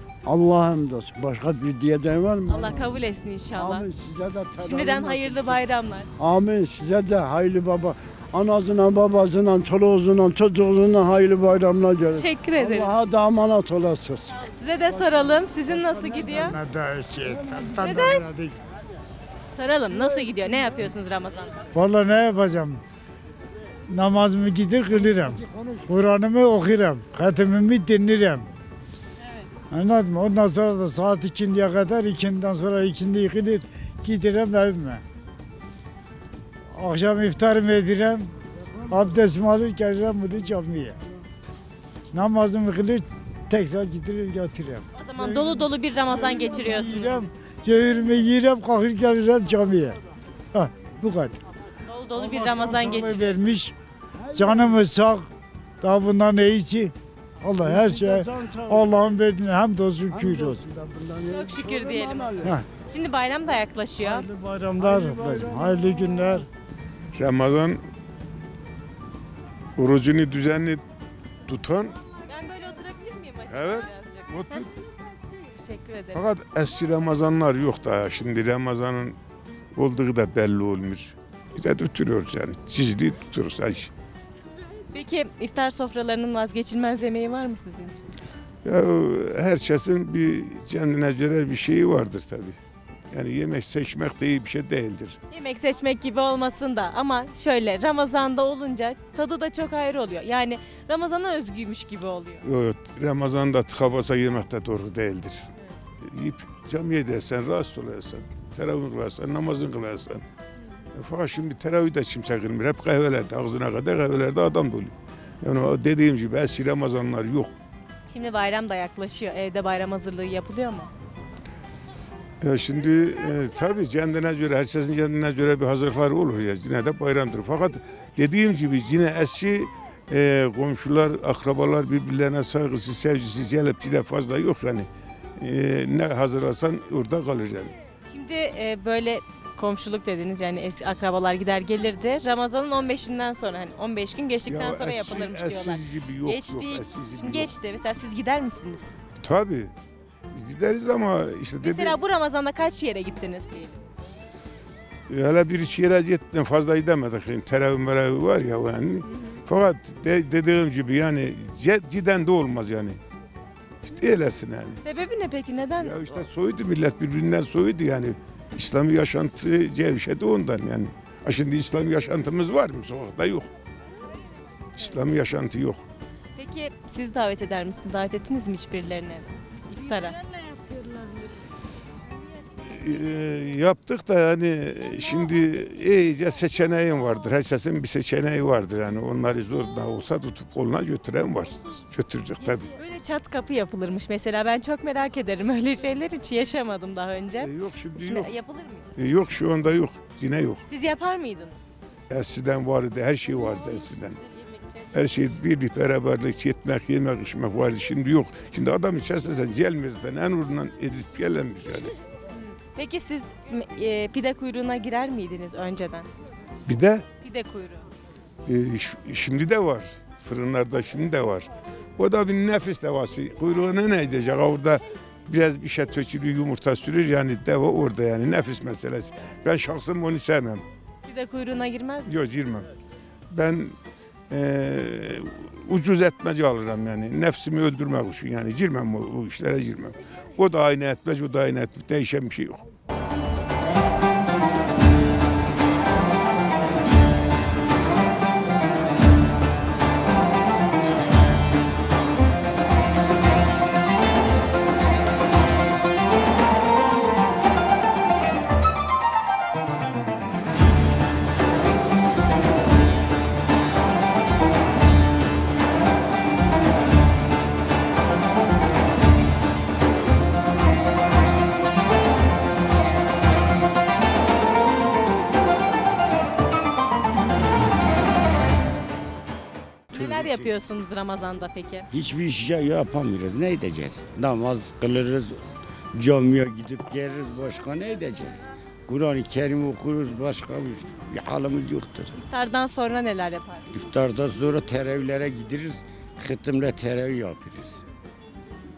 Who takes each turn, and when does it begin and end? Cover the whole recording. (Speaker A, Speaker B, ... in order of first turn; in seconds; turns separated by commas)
Speaker A: 0.3-3.0, Speaker B: 2.5-3.9, Speaker A: 3.5-5.6, Speaker B: 4.6-6.1, Speaker A: 6.2-14.3, Speaker B: 12.1-13.0, Speaker B: 14.3-16.6, Speaker A: 15.1-16.5, Speaker C: 16.5-18.6, Speaker B: 17.8-18.2, Speaker B: 19.5-21.5, Speaker C: 21.7-22.8, Speaker C: 23.9-28.4, Speaker A: 24.9-25.8, Speaker C: 29.7-35.0, Speaker C: 36.7-38.3, Speaker C: 38.9-41.0, Speaker C: 42.1-50.0, Speaker B: 44.9-47.3, Speaker C: 50.5-51.4, Speaker B: 51.9-53.5, Speaker C: 52.1-53.7, Speaker A: 54.2-54.8, Speaker C: 54.3-55.3, Speaker C: 55.8-60.6, Speaker A: 57.6-59.2, Speaker A: 60.1-62.5, Speaker B: 61.3-64.3, Speaker C: 64.1-66.5, Speaker A: 64.3-66.4, Speaker D: 67.2-67.8, Speaker D: 69.8-70.8, Speaker D: 71.5-72.0, Speaker B: 72.2-76.2, Speaker D: 73.5-74.7, Speaker D: 76.1-79.2, Speaker D: 79.8-83.9, Speaker B: 84.9-88.0, Speaker D: 88.7-92.6, Speaker D: 93.1-95.2, Speaker B: 95.3-102.4, Speaker D: 102.4-105.5, Speaker D: 106.0-110.2, Speaker D: 110.9-117.5, Speaker B: 118.1-120.9, Speaker D: 122.4-137.8, Speaker B: 138.1-148.9, Speaker D: 144.5-147.5, Speaker D: 149.2-149.7, Speaker D: 150.3-152.0, Speaker B: 151.6-153.8, Speaker D: 155.1-163.0, Speaker B: 159.1-159.4, Speaker D: 163.8-164.8, Speaker B: 164.8-166.0, Speaker D: 165.8-173.5, Speaker D: 174.8-175.8, Speaker B: 176.4-180.2, Speaker D: 182.6-192.7, Speaker B: 192.7-198.9, Speaker D: 197.4-198.3, Speaker D: 199.0-200.6, Speaker B: 200.7-201.7, Speaker D: 202.1-204.2, Speaker D: 204.9-212.0, Speaker B: 212.3-216.1, Speaker D: 216.7-217.1, Speaker B: 217.2-217.9, Speaker D: 218.5-230.6, Speaker B: 231.1-232.2, Speaker D: 232.1-232.7, Speaker D: 233.3-233.8, Speaker D: 234.3-242.7, Speaker E: 279.9-280.5, Speaker B: 279.9-281.9, Speaker E: 281.9-292.2, Speaker B: 292.1-293.8, Speaker E: 293.7-297.8